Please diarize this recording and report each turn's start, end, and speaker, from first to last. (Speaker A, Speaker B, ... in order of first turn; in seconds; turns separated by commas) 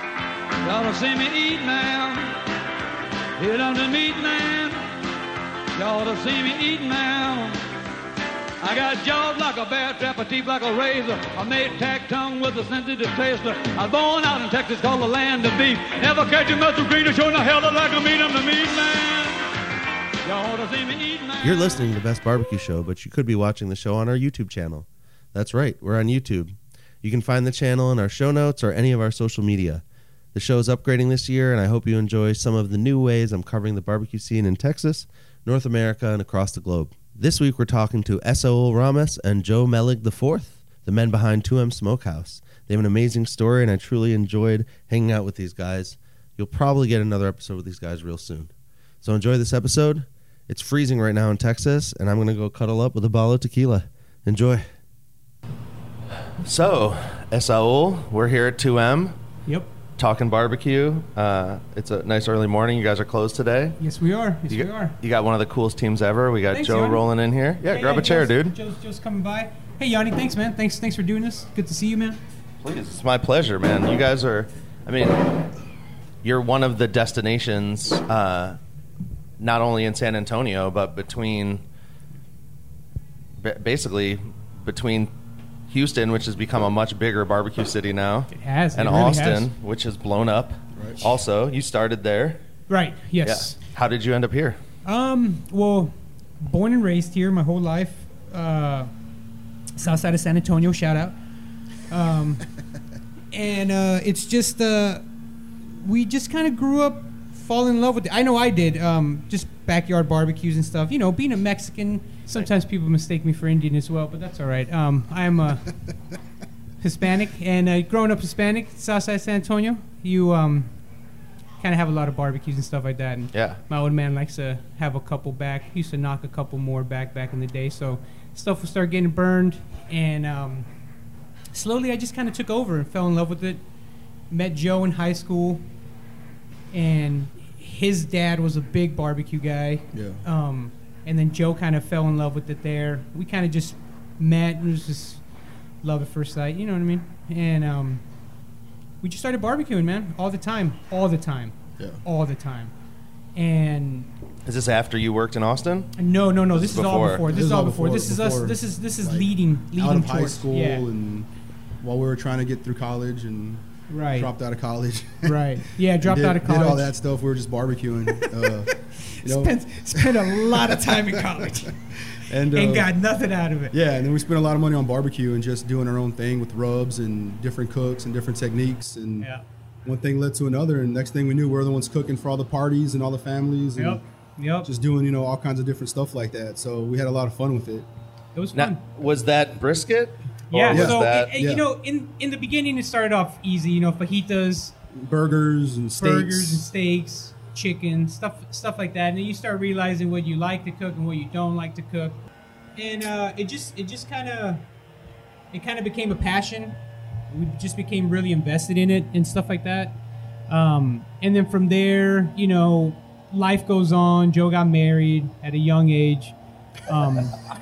Speaker A: 0.6-2.4, Speaker A: 3.4-4.8, Speaker A: 5.8-7.6, Speaker A: 8.6-19.4, Speaker A: 20.2-21.8, Speaker B: 21.4-29.8, Speaker B: 30.3-54.6, Speaker B: 56.4-59.1, Speaker B: 60.0-63.8, Speaker C: 63.8-65.0, Speaker B: 64.5-68.5, Speaker C: 66.5-67.0, Speaker C: 67.6-72.2, Speaker B: 72.6-75.5, Speaker B: 76.2-78.6, Speaker B: 79.4-81.6, Speaker B: 83.4-85.1, Speaker B: 85.7-92.4, Speaker C: 88.3-89.5, Speaker D: 90.7-91.0, Speaker C: 92.7-93.6, Speaker B: 93.2-94.6, Speaker C: 94.8-98.9, Speaker C: 99.8-101.1, Speaker C: 101.9-102.4, Speaker C: 103.3-105.0, Speaker C: 105.8-115.8, Speaker C: 116.8-120.7, Speaker C: 121.6-130.7, Speaker B: 123.3-123.6, Speaker C: 131.5-133.6, Speaker C: 134.3-135.6, Speaker C: 136.7-145.2, Speaker D: 139.9-140.2, Speaker C: 145.8-148.0, Speaker C: 149.0-152.7, Speaker C: 153.3-154.1, Speaker B: 154.4-155.9, Speaker C: 156.0-160.8, Speaker B: 156.5-157.2, Speaker D: 157.3-161.3, Speaker D: 161.8-165.4, Speaker C: 163.9-164.3, Speaker C: 165.2-166.9, Speaker D: 166.0-172.9, Speaker C: 169.1-171.8, Speaker C: 172.5-173.7, Speaker D: 173.7-179.3, Speaker D: 179.8-184.0, Speaker C: 183.8-184.7, Speaker D: 184.6-187.9, Speaker C: 188.3-188.8, Speaker B: 188.5-191.3, Speaker C: 190.5-194.7, Speaker D: 190.7-191.6, Speaker D: 194.9-196.7, Speaker C: 196.0-202.2, Speaker C: 202.8-204.6, Speaker C: 205.5-206.8, Speaker C: 207.3-209.9, Speaker C: 210.5-216.3, Speaker C: 216.8-217.4